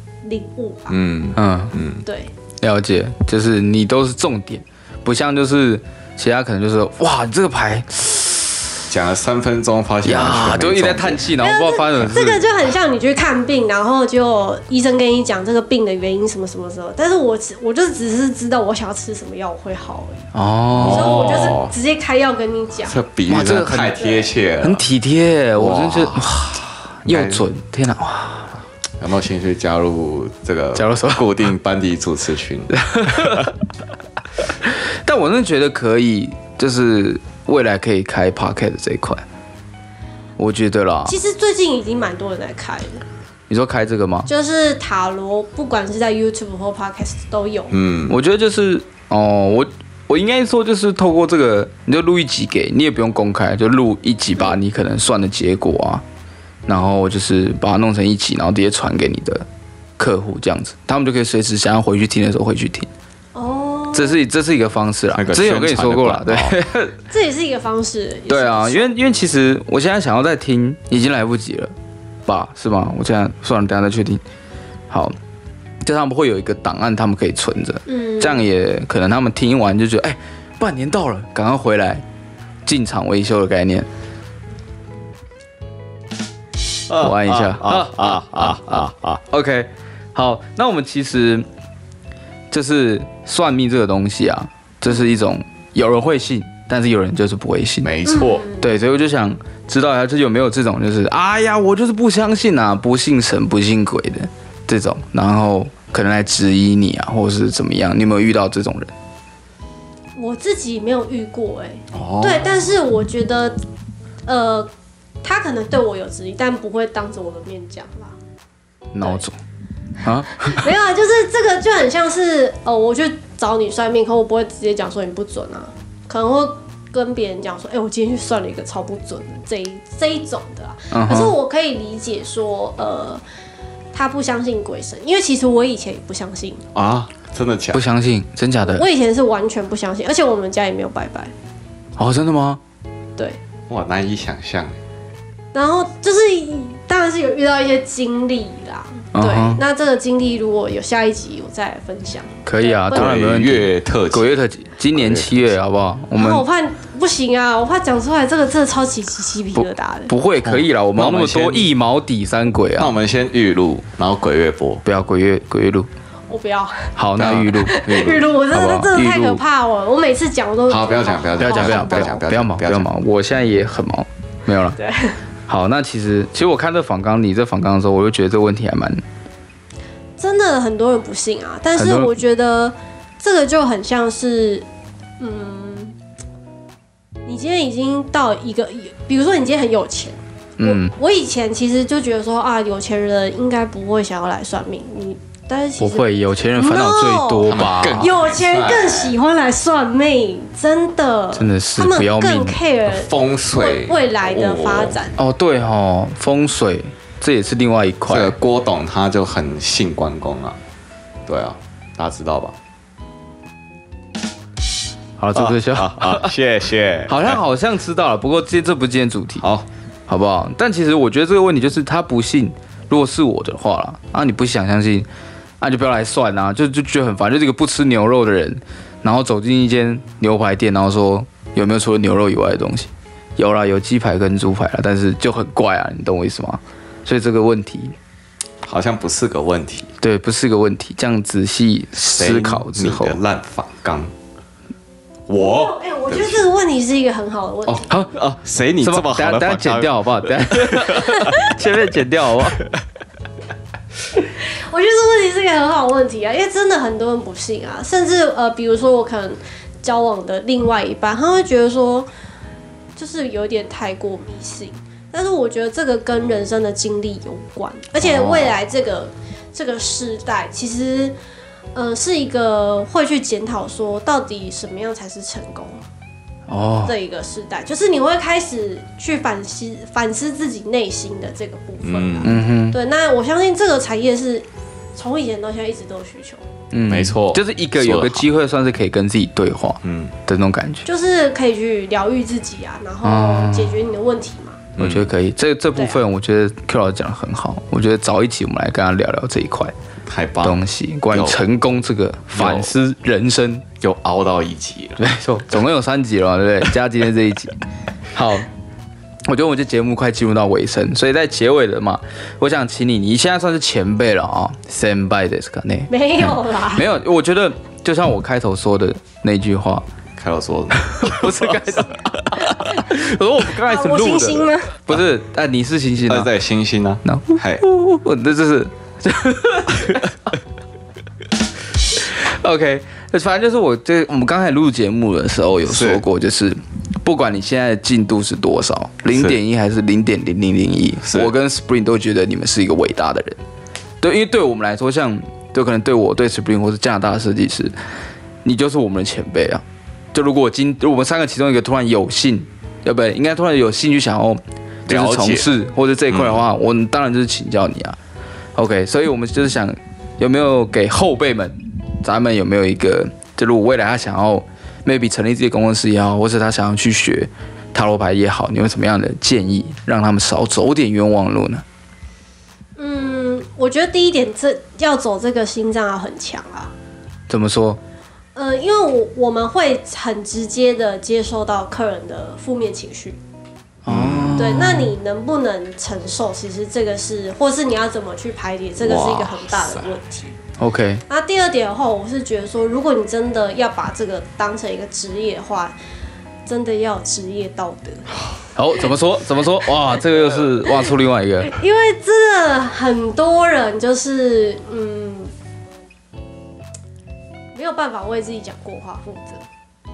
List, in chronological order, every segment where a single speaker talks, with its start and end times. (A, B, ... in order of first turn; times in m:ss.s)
0:00.2-0:01.0 A
0:00.9-0:02.0 B
0:01.4-0:01.8 C
0:02.1-0:02.3 A
0:02.6-0:08.8 C
0:08.9-0:11.3 B
0:10.0-0:12.4 C
0:11.4-0:20.3 A
0:20.3-0:21.5 C
0:20.7-0:21.7 B
0:20.8-0:23.0 A
0:22.9-0:24.8 B
0:23.3-0:24.0 C
0:24.0-0:24.3 A
0:24.6-0:28.5 C
0:25.6-0:27.4 B
0:29.0-0:33.5 B
0:30.8-0:31.3 C
0:32.8-0:33.5 C
0:34.6-0:39.2 C
0:40.4-0:41.1 C
0:41.1-0:43.0 A
0:43.5-0:44.3 C
0:44.3-0:47.8 A
0:47.7-0:48.2 B
0:48.1-0:56.0 C
0:56.7-0:59.5 C
1:00.0-1:02.9 C
1:03.4-1:04.2 A
1:03.9-1:07.0 C
1:05.1-1:06.6 B
1:07.1-1:09.2 A
1:08.3-1:11.7 C
1:12.3-1:14.2 C
1:14.9-1:15.2 C
1:15.8-1:22.0 C
1:17.9-1:18.5 A
1:22.7-1:23.9 C
1:26.9-1:29.2 B
1:26.9-1:31.5 C
1:32.5-1:37.9 C
1:37.8-1:38.5 B
1:38.1-1:38.7 A
1:38.6-1:48.9 C
1:50.2-1:53.6 A
1:51.9-1:52.4 B
1:54.3-1:54.7 A
1:55.2-1:58.2 A
1:58.9-1:59.4 C
2:00.0-2:00.7 C
2:00.4-2:13.2 A
2:10.9-2:11.4 C
2:13.9-2:16.6 A
2:16.7-2:17.8 B
2:17.7-2:18.8 C
2:18.6-2:21.3 A
2:22.0-2:22.6 C
2:23.7-2:24.8 B
2:25.5-2:33.2 A
2:29.1-2:29.6 C
2:32.5-2:36.4 C
2:32.9-2:34.3 B
2:34.9-2:35.5 B
2:36.2-2:40.1 A
2:39.6-2:42.9 C
2:40.4-2:41.7 B
2:42.8-2:44.8 B
2:44.8-2:45.9 C
2:46.3-2:52.2 A
2:47.0-2:49.4 C
2:47.2-2:48.2 B
2:50.7-2:52.9 B
2:51.4-2:54.8 C
2:54.8-2:55.2 A
2:55.5-2:59.0 C
3:00.2-3:04.7 A
3:01.8-3:02.1 C
3:05.2-3:06.0 A
3:07.3-3:25.2 A
3:10.6-3:10.9 C
3:15.8-3:18.1 C
3:17.5-3:19.2 B
3:21.4-3:22.6 C
3:22.9-3:25.0 B
3:25.2-3:28.4 C
3:28.1-3:30.6 B
3:31.3-3:32.6 B
3:35.2-3:36.3 C
3:35.3-3:37.4 B
3:37.1-3:39.4 C
3:39.4-3:39.7 B
3:40.1-3:45.1 C
3:45.6-3:58.0 C
3:58.6-3:59.9 B
4:00.0-4:03.2 C
4:02.2-4:04.1 B
4:05.3-4:06.4 B
4:05.4-4:08.0 A
4:07.7-4:11.4 B
4:07.9-4:12.6 C
4:14.4-4:22.1 A
4:23.0-4:31.2 A
4:31.8-4:35.8 A
4:36.5-4:36.9 C
4:36.9-4:46.4 A
4:41.8-4:42.4 B
4:42.2-4:42.8 C
4:46.7-4:50.8 C
4:46.9-4:48.3 B
4:49.8-4:50.2 B
4:50.8-4:54.6 A
4:53.0-4:53.8 C
4:54.8-4:55.1 B
4:54.8-4:59.7 C
4:55.8-4:56.0 A
5:00.1-5:01.4 B
5:00.4-5:03.6 C
5:02.3-5:02.7 B
5:03.8-5:05.0 B
5:05.0-5:07.5 C
5:08.1-5:08.5 C
5:09.3-5:19.8 C
5:15.9-5:16.9 A
5:20.2-5:21.7 B
5:20.8-5:26.3 C
5:23.6-5:24.8 A
5:26.1-5:27.6 B
5:27.0-5:30.3 C
5:32.0-5:43.4 C
5:35.7-5:36.0 B
5:39.1-5:39.4 B
5:41.0-5:41.3 B
5:44.0-5:47.7 C
5:48.4-5:49.6 C
5:50.1-5:58.0 C
5:54.9-5:55.5 B
5:56.1-5:56.4 B
5:58.6-6:11.6 C
6:12.8-6:16.7 A
6:17.3-6:17.8 C
6:18.4-6:23.2 A
6:23.9-6:24.6 B
6:23.9-6:24.9 C
6:24.4-6:30.4 A
6:28.8-6:30.0 B
6:30.6-6:31.0 C
6:31.1-6:35.8 A
6:36.5-6:38.1 A
6:38.6-6:41.6 C
6:41.4-6:45.3 A
6:47.5-6:49.4 A